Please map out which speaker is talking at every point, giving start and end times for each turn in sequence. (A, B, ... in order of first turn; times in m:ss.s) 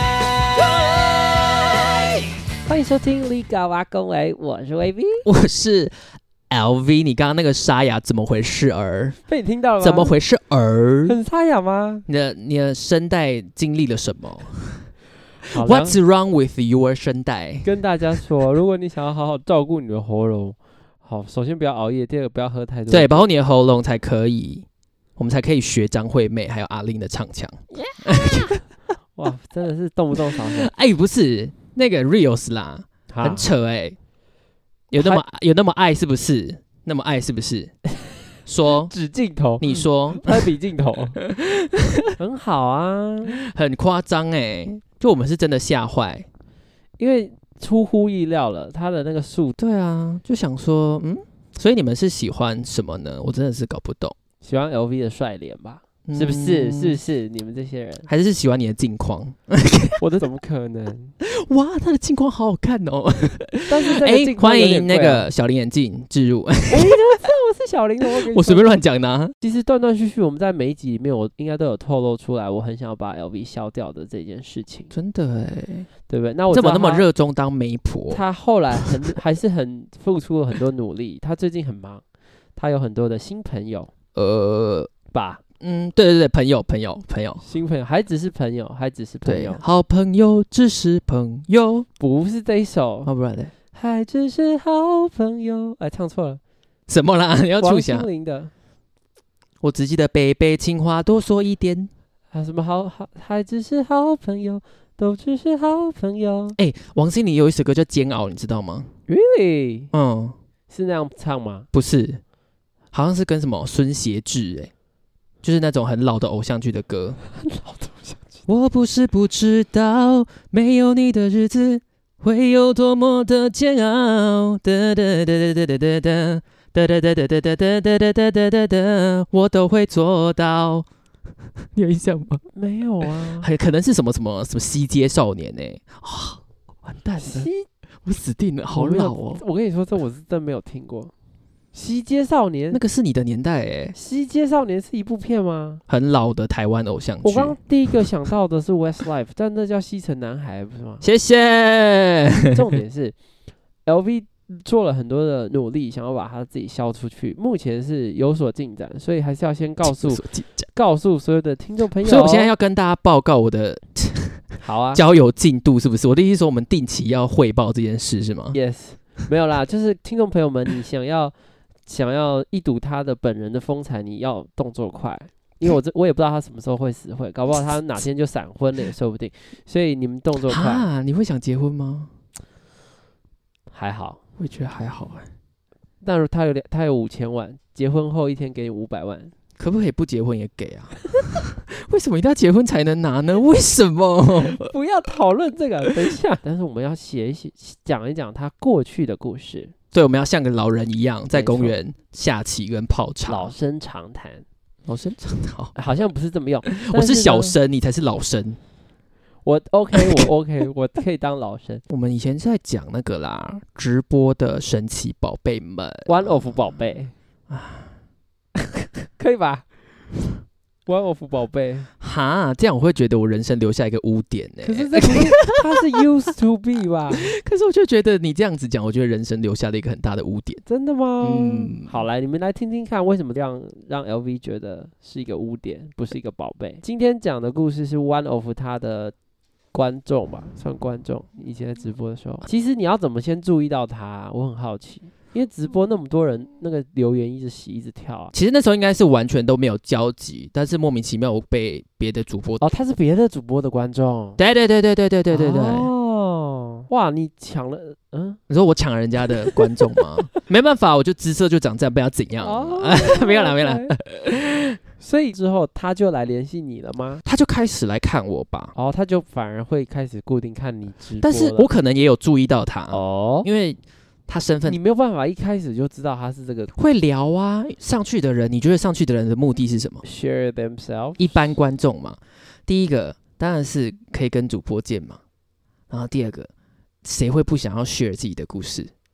0:00.6-0:02.0 A
0:02.6-0:05.2 A
0:05.2-0:05.9 B
0:06.5-0:09.2 B
0:09.3-0:10.1 A
0:09.8-0:11.2 B
0:11.0-0:12.0 A
0:12.1-0:14.9 B
0:15.4-0:18.2 B
0:15.5-0:16.0 A
0:17.6-0:23.3 A
0:22.9-0:24.6 B
0:25.2-0:28.6 B
0:28.0-0:28.6 A
0:29.2-0:30.7 A
0:30.3-0:34.0 B
0:33.1-0:33.4 A
0:34.9-0:37.7 B
0:35.0-0:35.2 A
0:38.4-0:38.9 B
0:38.9-0:41.2 A
0:39.6-0:40.5 B
0:41.2-0:42.1 B
0:42.2-0:43.4 A
0:43.4-0:46.2 B
0:47.0-0:49.6 A
0:49.6-0:54.2 B
0:54.4-0:58.1 A
0:56.0-0:57.0 B
0:58.1-1:00.0 B
1:00.0-1:01.1 A
1:01.2-1:07.1 B
1:03.7-1:05.3 A
1:06.7-1:08.8 A
1:08.1-1:09.3 B
1:09.4-1:14.9 A
1:14.9-1:15.9 B
1:16.1-1:17.0 A
1:16.5-1:18.2 B
1:18.1-1:22.0 A
1:22.6-1:23.9 A
1:24.2-1:24.9 B
1:25.1-1:25.4 A
1:25.6-1:27.4 B
1:27.4-1:29.6 A
1:29.2-1:31.9 B
1:32.0-1:33.1 A
1:33.0-1:33.5 B
1:33.7-1:36.4 A
1:36.9-1:38.1 B
1:37.6-1:38.5 A
1:39.6-1:41.9 B
1:42.3-1:46.6 A
1:46.6-1:48.9 B
1:49.1-1:49.9 A
1:49.9-1:50.4 B
1:50.7-1:51.7 A
1:51.7-1:52.2 B
1:52.9-1:54.7 B
1:55.4-1:57.2 B
1:57.3-1:58.4 A
1:58.5-2:10.9 B
2:11.7-2:12.4 B
2:12.5-2:13.5 A
2:13.3-2:17.5 B
2:17.2-2:17.6 A
2:18.0-2:19.4 B
2:18.7-2:21.1 A
2:21.7-2:22.8 A
2:22.7-2:24.0 B
2:23.9-2:25.8 A
2:25.9-2:28.0 B
2:27.2-2:31.0 A
2:31.0-2:32.6 B
2:32.5-2:33.1 A
2:33.8-2:42.5 A
2:39.8-2:40.7 B
2:42.0-2:48.6 B
2:44.6-2:45.0 A
2:48.5-2:51.3 A
2:51.8-3:00.8 A
3:00.5-3:02.1 B
3:03.7-3:04.2 A
3:04.4-3:05.3 B
3:06.0-3:09.3 A
3:09.6-3:14.7 B
3:14.4-3:19.7 A
3:19.9-3:23.5 B
3:21.3-3:21.7 A
3:23.2-3:24.4 A
3:24.9-3:25.7 B
3:25.7-3:27.6 A
3:26.7-3:28.6 B
3:29.4-3:31.8 A
3:30.0-3:30.3 B
3:31.9-3:36.7 B
3:36.0-3:37.1 A
3:37.5-3:37.9 B
3:38.6-3:39.6 A
3:40.9-3:41.9 A
3:42.0-3:46.0 B
3:44.6-3:47.3 A
3:47.1-3:50.6 B
3:50.6-3:59.1 A
3:51.2-3:52.0 B
3:59.7-4:08.3 A
4:08.3-4:12.6 B
4:12.6-4:14.4 A
4:14.4-4:15.9 B
4:15.3-4:18.4 A
4:18.5-4:24.8 B
4:19.6-4:20.0 A
4:22.4-4:23.9 A
4:25.0-4:27.2 A
4:27.2-4:28.7 B
4:28.7-4:31.7 A
4:31.2-4:34.8 B
4:32.9-4:33.5 A
4:34.6-4:36.7 A
4:36.8-4:40.0 B
4:40.0-4:41.2 A
4:41.2-4:45.2 B
4:45.9-4:46.5 B
4:47.0-4:48.9 B